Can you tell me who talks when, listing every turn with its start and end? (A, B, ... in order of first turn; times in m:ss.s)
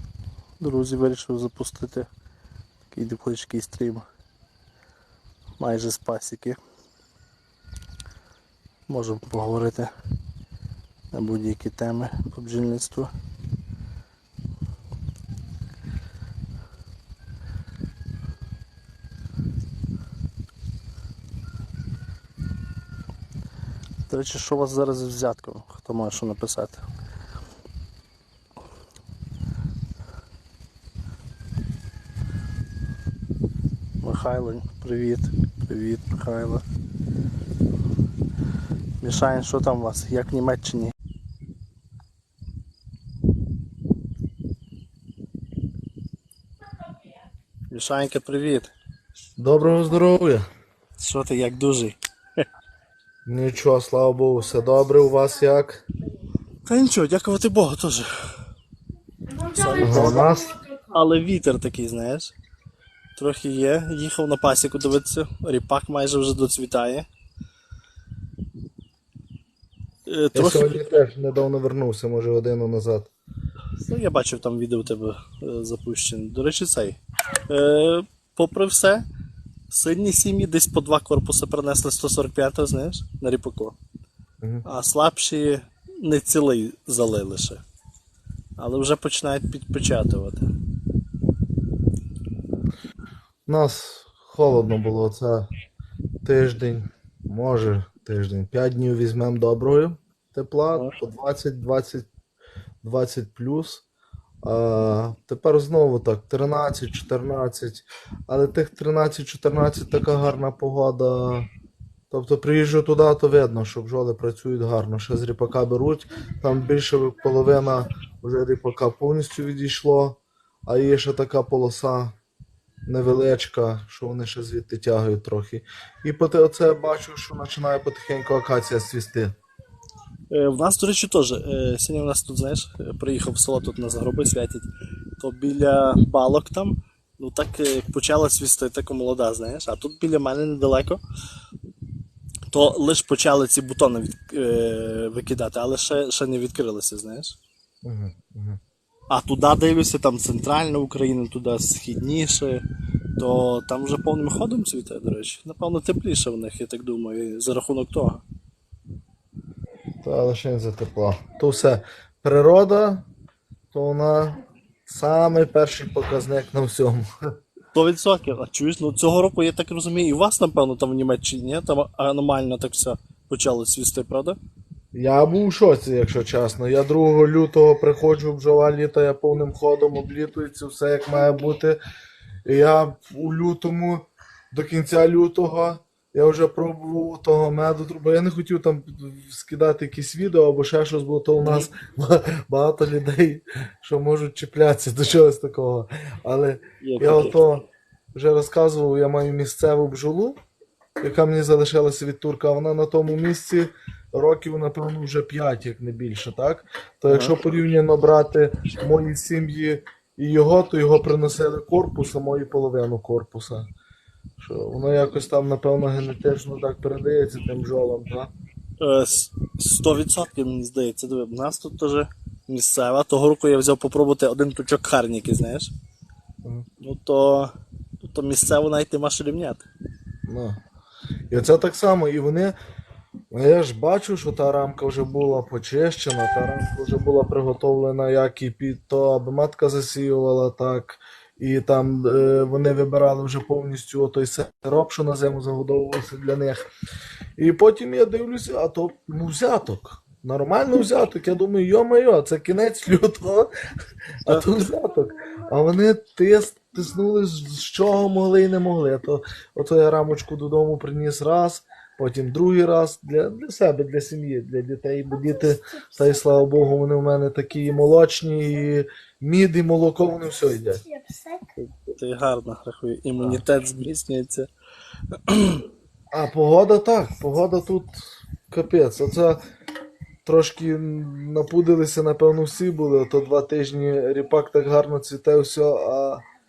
0:00.6-0:02.1 A
0:02.9-0:04.0 A
0:05.6-0:06.6 A
0:08.9-0:09.9 A
0:11.1-0:13.1 A
0:24.1-0:26.8 A
0:34.0-0:36.6 A
0:39.0-0:40.9 A
0:47.7-0:48.7 A
0:49.4-0:50.4 B
0:51.0-0:52.0 A
0:53.2-0:55.8 B
0:56.6-0:58.1 A
0:59.5-1:00.4 A
0:59.8-1:00.5 B
1:00.9-1:02.3 A
1:03.2-1:07.0 A
1:10.1-1:10.8 A
1:10.3-1:13.1 B
1:13.8-1:17.0 A
1:17.5-1:19.0 A
1:19.7-1:23.8 A
1:24.6-1:27.6 A
1:28.6-1:30.5 A
1:33.4-1:35.5 B
1:36.2-1:42.1 B
1:42.8-1:43.8 B
1:44.4-1:51.5 B
1:52.1-2:02.2 B
2:02.8-2:09.3 B
2:10.3-2:14.7 A
2:15.2-2:21.0 A
2:22.5-2:27.4 A
2:27.8-2:28.6 B
2:29.1-2:32.6 A
2:33.2-2:38.2 A
2:40.0-2:43.1 B
2:43.7-2:47.0 B
2:47.7-2:54.4 A
2:54.9-3:01.8 B
3:02.4-3:20.4 B
3:11.4-3:11.7 A
3:16.8-3:17.5 A
3:21.0-3:33.7 B
3:27.1-3:27.4 A
3:34.4-3:38.3 B
3:38.8-3:45.7 A
3:46.8-3:49.6 A
3:50.2-3:50.6 B
3:51.3-3:52.6 B
3:53.3-4:06.6 B
4:07.4-4:13.5 B
4:14.2-4:30.8 B
4:31.6-4:34.5 A
4:35.1-4:35.6 A
4:36.1-4:37.9 B
4:38.5-4:39.4 B
4:40.2-4:46.2 B